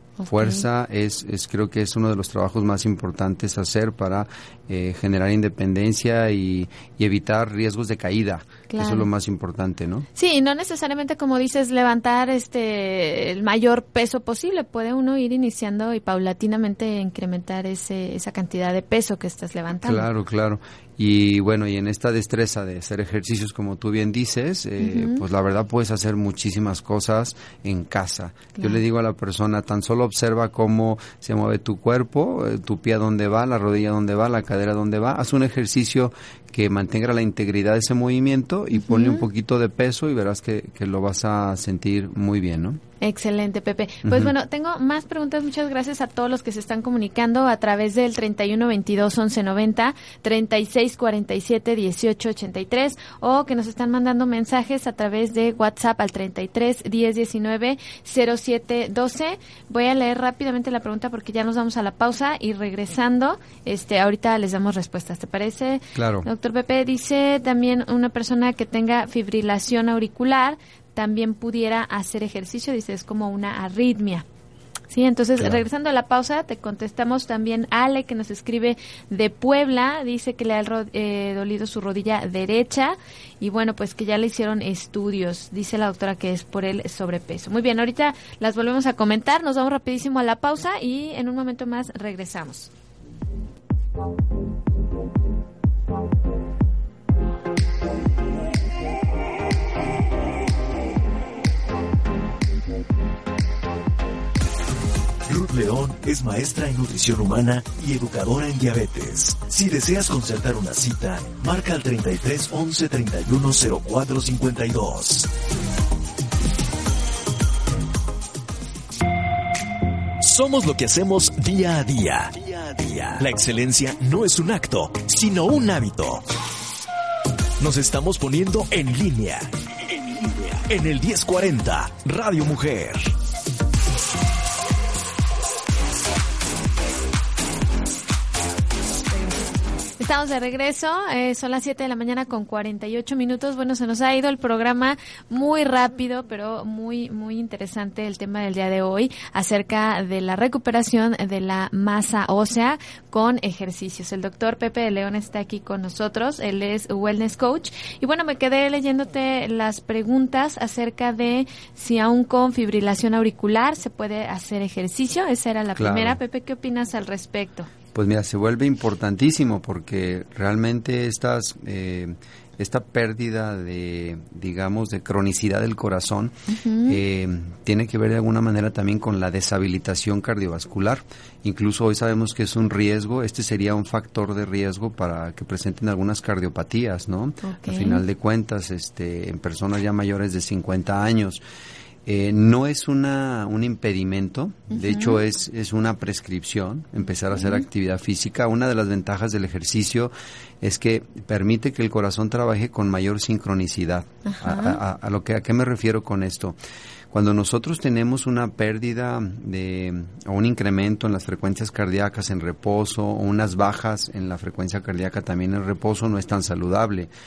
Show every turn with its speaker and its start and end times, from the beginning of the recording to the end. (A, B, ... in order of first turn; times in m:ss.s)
0:00.2-0:00.6 A
0:00.3-0:10.1 B
0:08.7-0:09.1 A
0:10.2-0:20.1 A
0:19.8-0:42.8 B
0:24.8-0:25.2 A
0:38.7-0:39.3 A
0:43.0-1:14.2 A
0:44.0-0:44.3 B
1:06.0-1:06.3 B
1:14.9-1:32.7 A
1:45.3-1:55.3 C
2:00.2-2:06.3 C
2:07.6-2:13.1 C
2:20.0-2:47.7 A
2:45.7-2:46.2 B
2:47.9-2:56.4 B
2:56.5-2:57.0 A
2:56.9-3:11.4 B
3:07.4-3:08.0 A
3:12.0-3:26.6 B
3:14.7-3:15.2 A
3:17.3-3:17.6 A
3:24.3-3:24.8 A
3:27.1-3:37.1 B